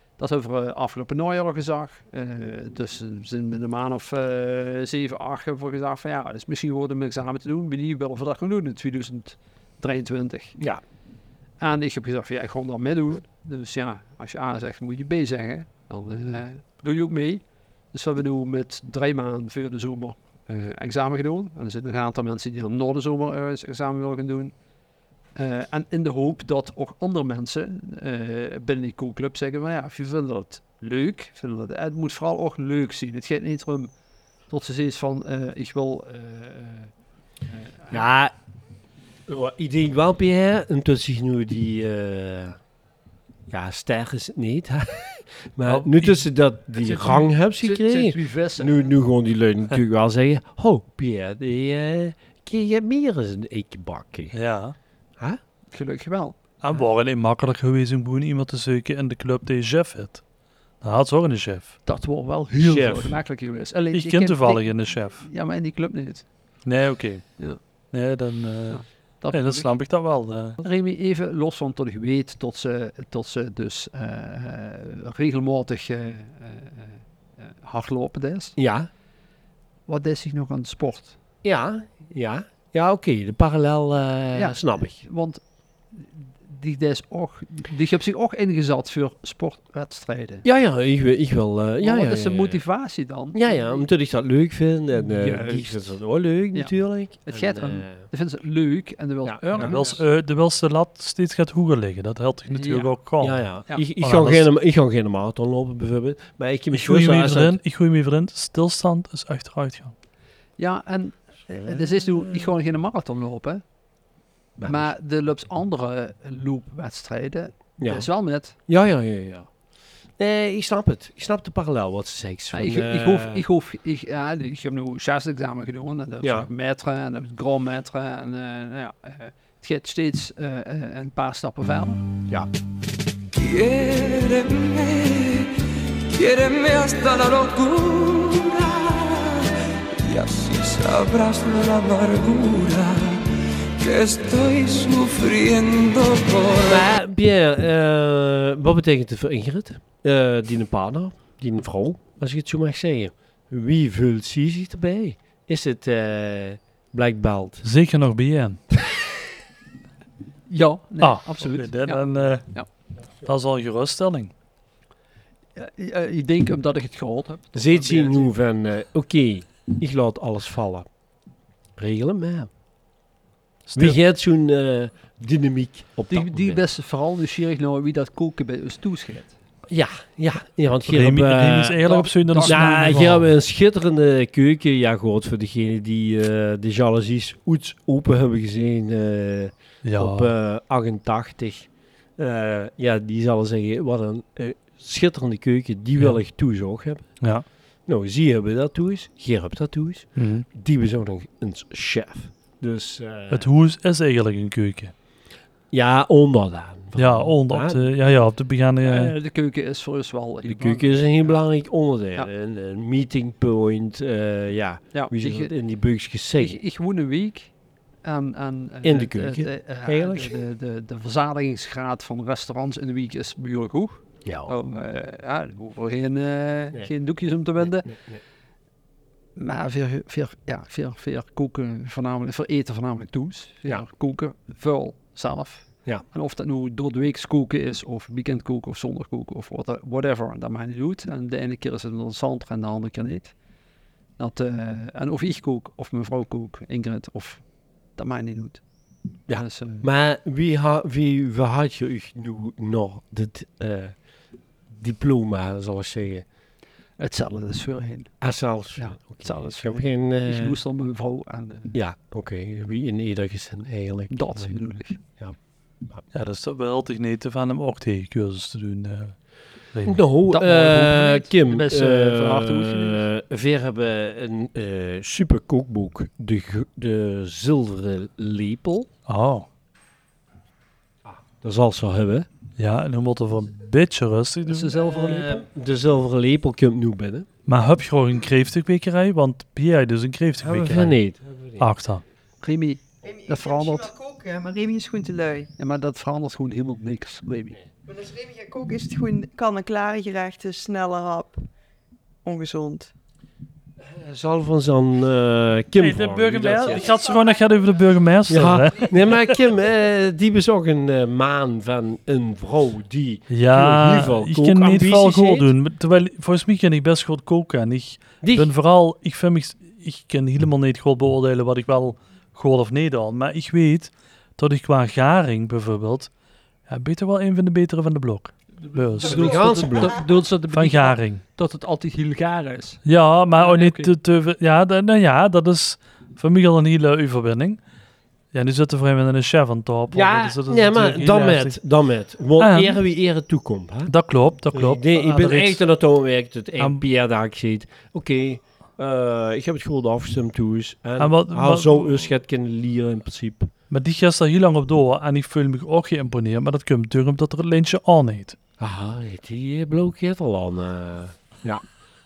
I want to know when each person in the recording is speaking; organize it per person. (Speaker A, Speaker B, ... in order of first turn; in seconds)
Speaker A: 0.2-10.6, 11.6-24.5, 25.4-33.9, 34.5-36.9, 37.5-38.0, 46.8-48.8, 55.7-56.8, 61.9-66.2, 68.7-69.7, 70.6-78.5, 79.9-81.2, 84.3-85.4, 85.9-90.4, 91.8-93.8, 95.0-96.0, 96.5-100.0, 102.5-103.0, 110.6-113.6, 114.6-118.5, 122.5-132.0, 160.5-162.7, 165.5-168.3, 176.1-179.3, 181.8-182.9, 208.8-211.3, 214.9-215.5, 216.4-217.5, 218.0-227.9, 229.3-243.3, 244.2-248.6, 249.3-249.9, 257.0-258.2, 258.7-261.8, 264.1-265.0, 270.3-273.0, 284.4-285.4, 292.4-293.9, 295.6-297.6, 328.7-332.8, 333.4-333.9
Speaker B: 37.9-38.3, 39.3-42.6, 43.5-54.4, 62.6-63.2, 78.5-78.9, 81.4-85.0, 90.4-92.6, 93.3-98.0, 99.2-99.8, 103.2-107.6, 114.6-114.9, 117.8-119.5, 120.2-123.4, 126.2-126.5, 146.6-157.7, 167.5-170.8, 171.8-172.5, 173.8-176.6, 179.7-181.8, 182.4-197.3, 197.8-203.5, 205.7-207.8, 210.4-216.6, 218.8-220.3, 224.2-224.5, 227.6-228.2, 249.3-254.0, 254.7-256.2, 258.2-260.6, 261.7-265.4, 269.9-278.9, 281.0-282.3, 284.8-287.3, 290.4-291.6, 303.8-306.9, 308.3-315.5, 318.2-318.5, 329.0-330.0, 339.9-343.9, 344.5-353.5, 358.6-361.6
Speaker C: 45.6-46.2, 54.3-54.8, 56.6-60.2, 60.8-61.8, 63.9-65.2, 66.6-67.4, 67.9-70.6, 99.6-104.5, 106.7-109.9, 157.6-158.6, 161.0-162.6, 163.2-164.3, 173.7-174.0, 180.9-183.3, 189.8-190.3, 200.2-200.4, 203.3-204.9, 206.9-209.1, 266.1-269.2, 269.7-270.0, 279.1-279.4, 282.6-284.9, 287.4-290.9, 291.6-292.0, 305.8-309.4, 313.3-326.1, 326.7-331.2, 332.8-337.6, 338.3-341.6, 342.4-342.8, 343.9-345.6, 351.0-352.1, 353.7-358.4
Speaker D: 133.3-143.2, 143.8-146.8
Speaker E: 293.0-295.5, 297.9-301.4, 302.2-302.9